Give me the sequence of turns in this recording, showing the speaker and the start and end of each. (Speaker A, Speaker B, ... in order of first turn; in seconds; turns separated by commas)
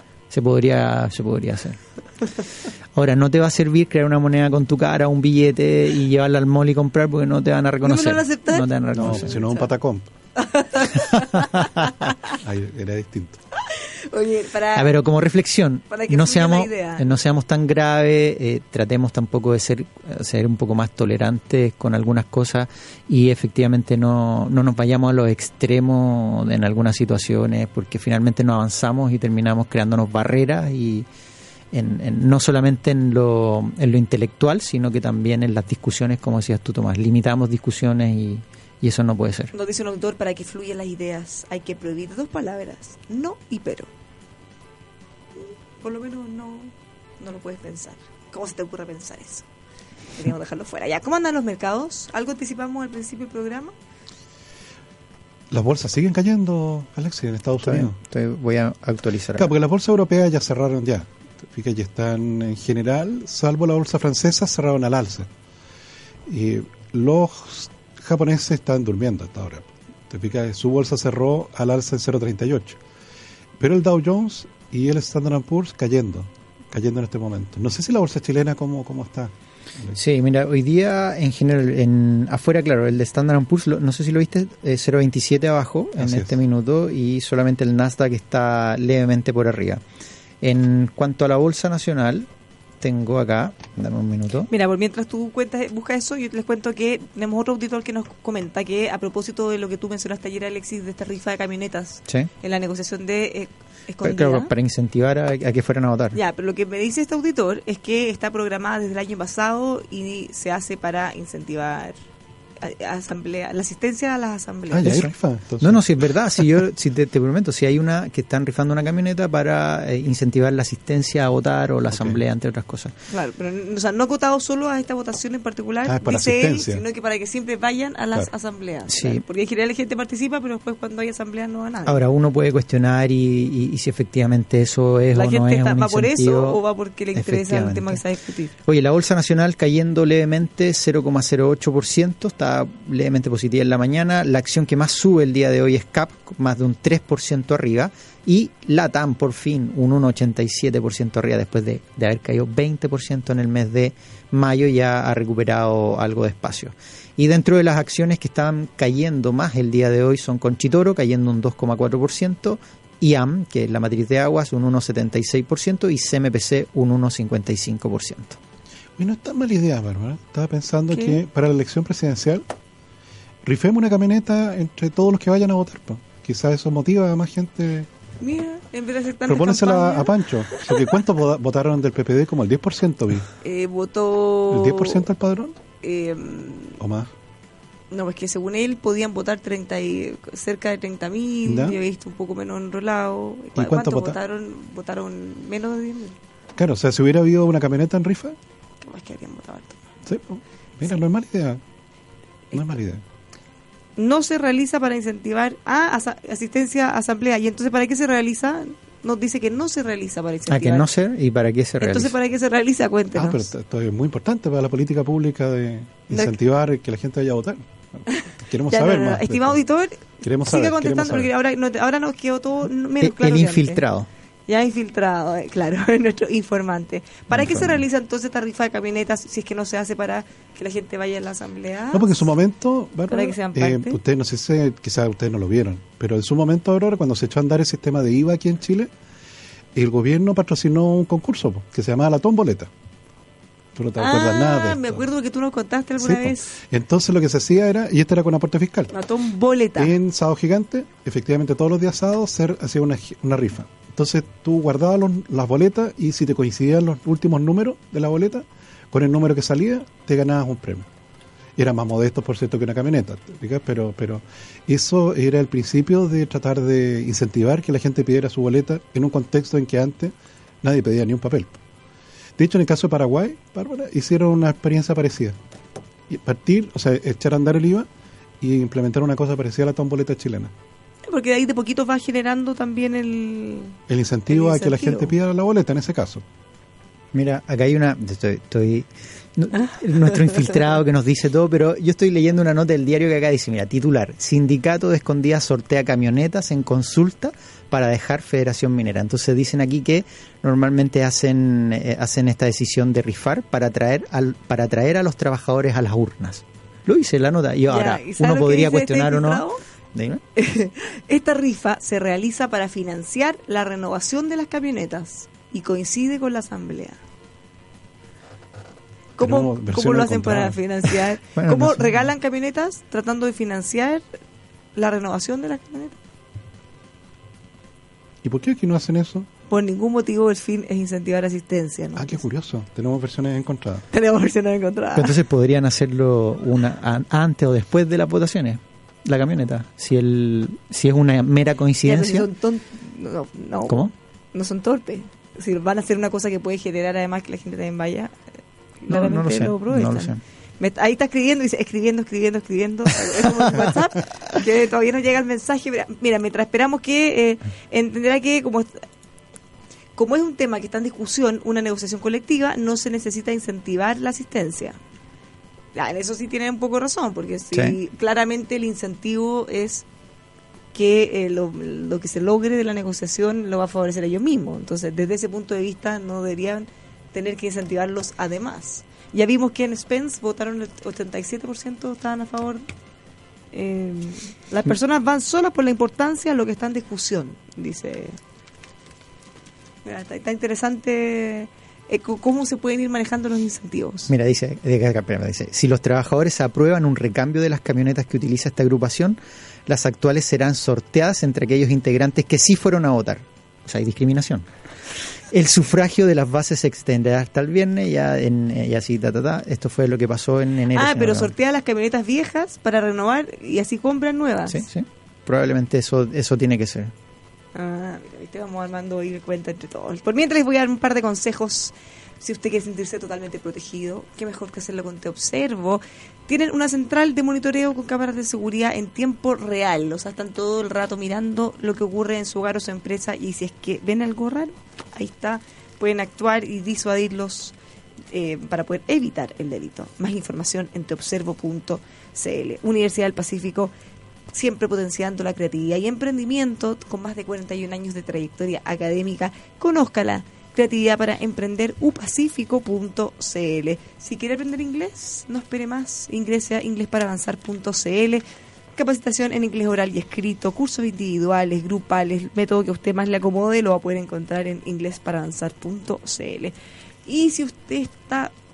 Speaker A: 0.3-1.8, Speaker A: 2.9-9.3, Speaker B: 7.8-9.7, Speaker C: 9.0-10.1, Speaker B: 10.4-12.1, Speaker A: 11.4-11.6, Speaker C: 12.3-13.4, Speaker B: 13.7-14.9, Speaker A: 14.7-31.1, Speaker B: 15.9-17.1, Speaker A: 31.7-39.5, Speaker B: 39.5-43.9, Speaker B: 45.4-49.5, Speaker B: 50.1-53.7, Speaker C: 55.5-57.9, Speaker A: 57.6-59.5, Speaker C: 59.4-65.3, Speaker C: 66.3-72.8, Speaker C: 73.6-80.0, Speaker A: 79.9-89.8, Speaker C: 86.0-86.3, Speaker A: 90.4-92.3, Speaker A: 92.8-94.5, Speaker B: 94.5-104.5, Speaker A: 104.0-106.2, Speaker B: 106.1-112.0, Speaker B: 112.6-115.0, Speaker C: 114.7-115.8, Speaker A: 114.8-122.9, Speaker C: 121.9-122.2, Speaker B: 123.1-132.0, Speaker C: 125.8-126.8, Speaker A: 128.9-129.2, Speaker A: 131.9-136.6, Speaker B: 135.1-138.5, Speaker A: 137.2-138.0, Speaker A: 138.7-168.4, Speaker C: 169.0-172.4, Speaker B: 170.9-171.2, Speaker C: 173.4-177.9, Speaker B: 178.2-180.8, Speaker C: 179.3-183.3, Speaker B: 183.4-185.1, Speaker C: 184.5-185.5, Speaker B: 185.8-186.8, Speaker C: 186.8-187.1, Speaker B: 187.9-196.2, Speaker C: 191.4-191.8, Speaker C: 193.6-194.2, Speaker C: 196.6-198.4, Speaker B: 198.8-199.8, Speaker C: 200.1-201.6, Speaker C: 202.5-203.0, Speaker B: 204.0-210.9, Speaker A: 210.5-212.2, Speaker B: 211.8-213.5, Speaker C: 213.2-219.6, Speaker B: 218.1-223.8, Speaker C: 220.2-221.3, Speaker A: 223.0-224.1, Speaker B: 224.5-232.3, Speaker C: 227.3-227.8, Speaker C: 231.9-238.9, Speaker B: 233.1-234.0, Speaker C: 239.8-242.7, Speaker C: 243.8-245.1, Speaker B: 244.0-246.6, Speaker C: 246.0-248.9, Speaker B: 248.9-249.9, Speaker C: 249.8-260.9, Speaker C: 261.6-271.6, Speaker C: 272.4-275.4, Speaker C: 276.1-277.9, Speaker C: 278.4-280.5, Speaker B: 281.1-283.8, Speaker C: 283.9-286.2, Speaker B: 284.3-285.1, Speaker A: 287.1-310.2, Speaker B: 307.7-309.6, Speaker B: 310.4-317.0, Speaker B: 319.2-324.0, Speaker C: 319.2-321.0, Speaker A: 321.4-322.1, Speaker B: 324.8-326.0, Speaker C: 328.2-329.3, Speaker B: 329.5-332.2, Speaker C: 332.0-333.8, Speaker B: 333.9-335.2, Speaker A: 334.9-342.3, Speaker B: 341.8-348.2, Speaker B: 348.8-358.9, Speaker A: 348.9-350.2, Speaker B: 360.0-364.8, Speaker B: 365.8-369.9, Speaker A: 367.5-367.8, Speaker B: 370.7-382.7, Speaker B: 383.5-388.2, Speaker B: 389.9-394.1, Speaker A: 394.1-404.5, Speaker A: 405.3-411.3, Speaker B: 410.7-414.6, Speaker A: 414.5-416.9, Speaker B: 417.6-437.5, Speaker B: 438.1-443.7, Speaker B: 444.3-458.2, Speaker B: 458.8-466.5, Speaker B: 467.1-468.3